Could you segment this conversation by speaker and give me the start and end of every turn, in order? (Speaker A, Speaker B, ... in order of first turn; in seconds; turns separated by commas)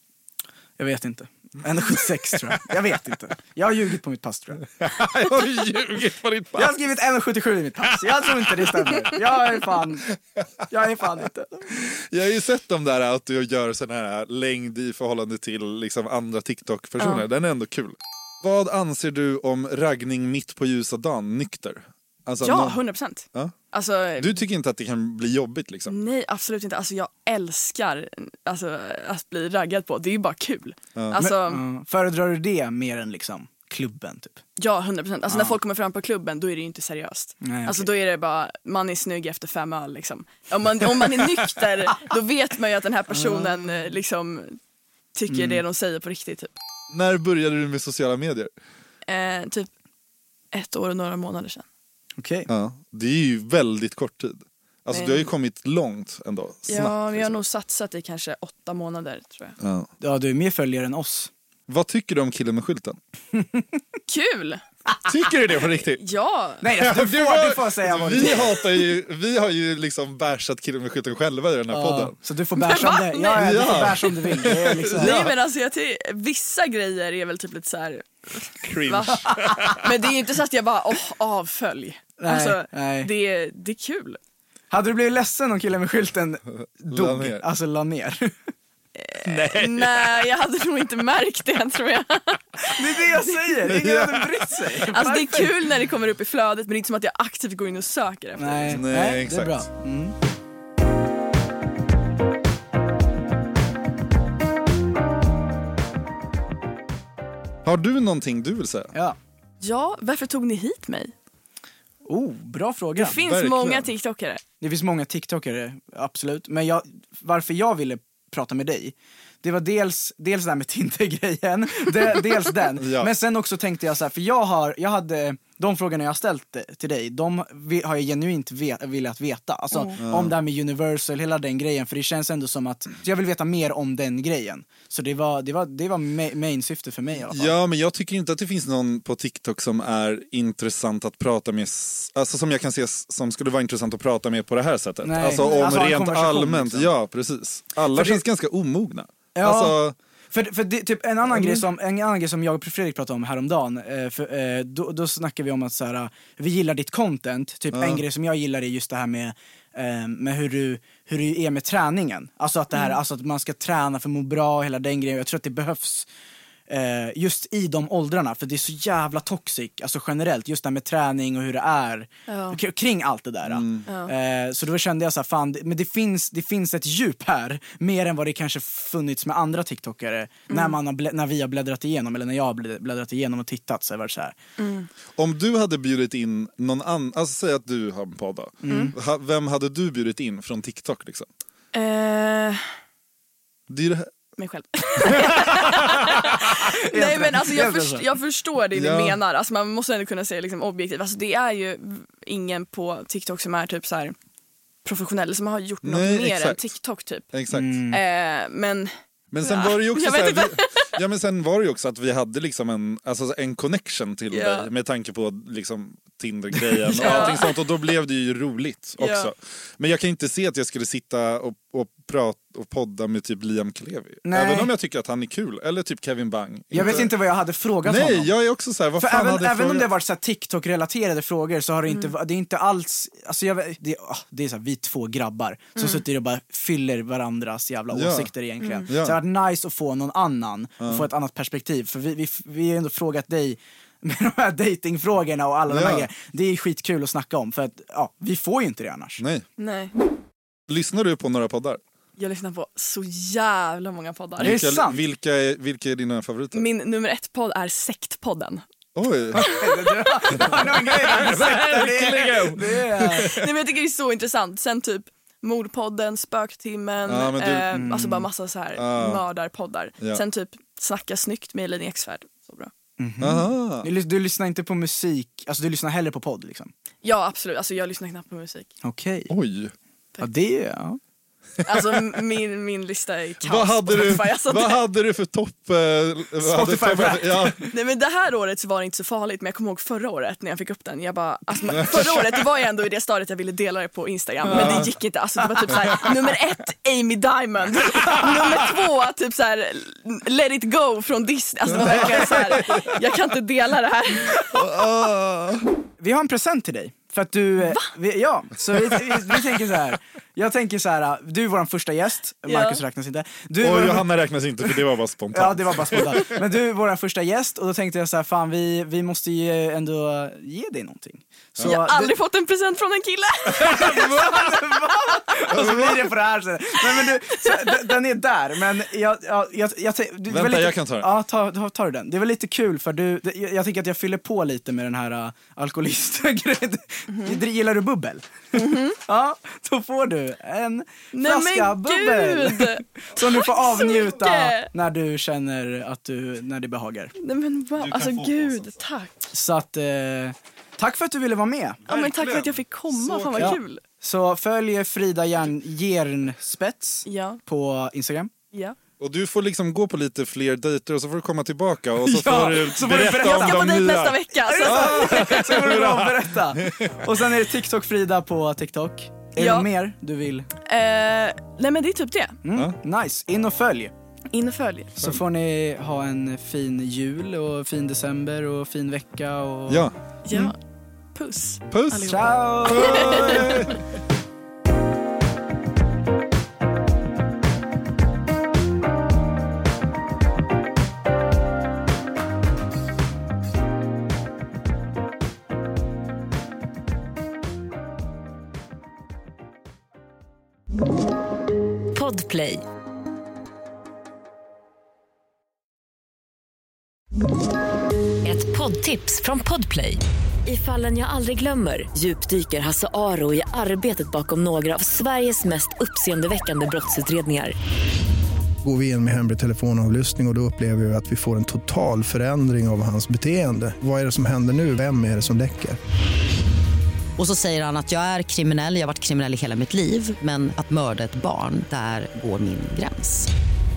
Speaker A: 0.8-4.7, Speaker B: 4.8-6.8, Speaker A: 6.5-10.2, Speaker B: 8.2-9.2, Speaker A: 10.7-11.8, Speaker B: 11.9-22.8, Speaker C: 22.4-24.3, Speaker B: 24.2-26.0, Speaker C: 25.9-31.6, Speaker A: 31.2-34.4, Speaker C: 34.6-44.6, Speaker A: 37.4-37.9, Speaker A: 43.1-43.6, Speaker C: 45.1-46.5, Speaker A: 45.3-45.6, Speaker B: 46.9-48.5, Speaker C: 49.1-49.7, Speaker C: 50.5-51.6, Speaker A: 52.2-52.5, Speaker B: 52.5-57.3, Speaker C: 54.9-55.3, Speaker C: 56.7-59.6, Speaker B: 59.6-59.9, Speaker A: 60.0-61.3, Speaker B: 61.7-63.0, Speaker A: 63.3-63.8, Speaker C: 64.1-64.6, Speaker B: 65.0-66.0, Speaker C: 66.0-66.7, Speaker A: 66.6-68.6, Speaker B: 66.8-72.2, Speaker A: 71.7-75.3, Speaker C: 72.6-73.9, Speaker B: 73.3-75.3, Speaker C: 74.9-84.2, Speaker B: 78.6-79.8, Speaker A: 82.2-83.1, Speaker A: 84.7-88.4, Speaker B: 86.6-87.5, Speaker C: 89.0-93.5, Speaker B: 89.2-90.2, Speaker A: 92.7-95.5, Speaker B: 93.7-94.6, Speaker C: 94.9-98.8, Speaker A: 98.4-100.2, Speaker B: 98.7-99.7, Speaker B: 107.7-108.9, Speaker C: 109.6-111.1, Speaker A: 112.0-113.2, Speaker C: 113.0-114.4, Speaker B: 113.3-113.9, Speaker A: 114.6-137.6, Speaker B: 122.8-123.1, Speaker C: 129.7-130.0, Speaker B: 130.0-130.4, Speaker B: 137.3-149.9, Speaker A: 145.0-146.9, Speaker A: 147.9-148.2, Speaker A: 149.3-166.1, Speaker B: 151.4-151.6, Speaker B: 157.7-158.0, Speaker A: 166.7-184.4, Speaker C: 172.3-172.6, Speaker B: 173.5-173.8, Speaker C: 173.9-174.1, Speaker C: 180.5-180.8, Speaker C: 184.6-184.9, Speaker B: 185.2-191.3, Speaker A: 188.6-189.0, Speaker C: 188.7-188.9, Speaker C: 191.7-192.7, Speaker B: 193.7-194.1, Speaker C: 194.4-204.2, Speaker A: 196.8-198.1, Speaker B: 198.8-199.2, Speaker C: 204.8-207.3, Speaker B: 205.8-206.7, Speaker B: 207.3-207.8, Speaker A: 207.5-208.0, Speaker C: 207.9-210.9, Speaker B: 209.3-227.1, Speaker C: 214.3-214.7, Speaker A: 216.7-217.4, Speaker C: 216.9-217.5, Speaker C: 219.0-219.3, Speaker A: 224.2-224.7, Speaker A: 226.7-228.3, Speaker B: 227.8-229.9, Speaker A: 229.0-249.2, Speaker C: 235.8-236.0, Speaker B: 237.9-238.3, Speaker B: 238.9-239.2, Speaker B: 240.8-241.1, Speaker B: 245.7-246.1, Speaker B: 249.2-249.4, Speaker C: 249.6-249.9, Speaker B: 250.7-251.8, Speaker C: 252.2-254.6, Speaker A: 254.4-255.0, Speaker B: 254.4-256.7, Speaker C: 256.5-258.6, Speaker B: 258.9-259.5, Speaker A: 259.3-263.4, Speaker C: 259.4-261.1, Speaker B: 261.0-263.5, Speaker C: 263.3-272.7, Speaker B: 267.1-267.8, Speaker A: 267.7-268.3, Speaker B: 268.8-269.2, Speaker A: 273.0-276.7, Speaker B: 273.2-273.9, Speaker C: 277.0-278.7, Speaker A: 278.8-279.3, Speaker B: 279.3-279.7, Speaker A: 280.2-281.0, Speaker C: 281.6-284.8, Speaker B: 283.4-287.7, Speaker A: 286.4-287.7, Speaker C: 287.7-304.6, Speaker B: 291.7-292.3, Speaker A: 294.4-294.9, Speaker B: 294.5-294.9, Speaker B: 301.7-302.9, Speaker A: 301.8-302.6, Speaker B: 304.5-305.7, Speaker A: 306.0-314.1, Speaker C: 307.6-307.9, Speaker B: 308.9-309.4, Speaker C: 312.5-312.8, Speaker B: 313.6-316.4, Speaker A: 315.3-322.1, Speaker C: 321.6-324.5, Speaker A: 323.6-347.1, Speaker B: 323.6-324.1, Speaker C: 325.1-325.5, Speaker B: 325.5-326.1, Speaker C: 327.4-327.7, Speaker B: 330.3-331.1, Speaker C: 337.1-337.4, Speaker C: 338.5-339.0, Speaker C: 341.1-344.7, Speaker C: 347.2-349.1, Speaker B: 347.8-348.7, Speaker A: 349.3-351.8, Speaker B: 351.9-353.6, Speaker C: 351.9-353.8, Speaker A: 353.4-358.3, Speaker C: 357.1-357.4, Speaker B: 359.0-367.0, Speaker A: 362.0-363.9, Speaker C: 363.1-365.6, Speaker A: 364.4-370.5, Speaker C: 369.4-369.7, Speaker C: 370.6-372.4, Speaker A: 372.4-373.9, Speaker C: 374.3-374.9, Speaker A: 375.0-380.5, Speaker B: 379.7-379.9, Speaker C: 380.3-380.6, Speaker C: 381.1-383.7, Speaker B: 381.7-383.8, Speaker A: 381.9-383.8, Speaker D: 401.9-402.6, Speaker D: 408.2-417.6, Speaker E: 418.6-425.8, Speaker F: 427.2-433.3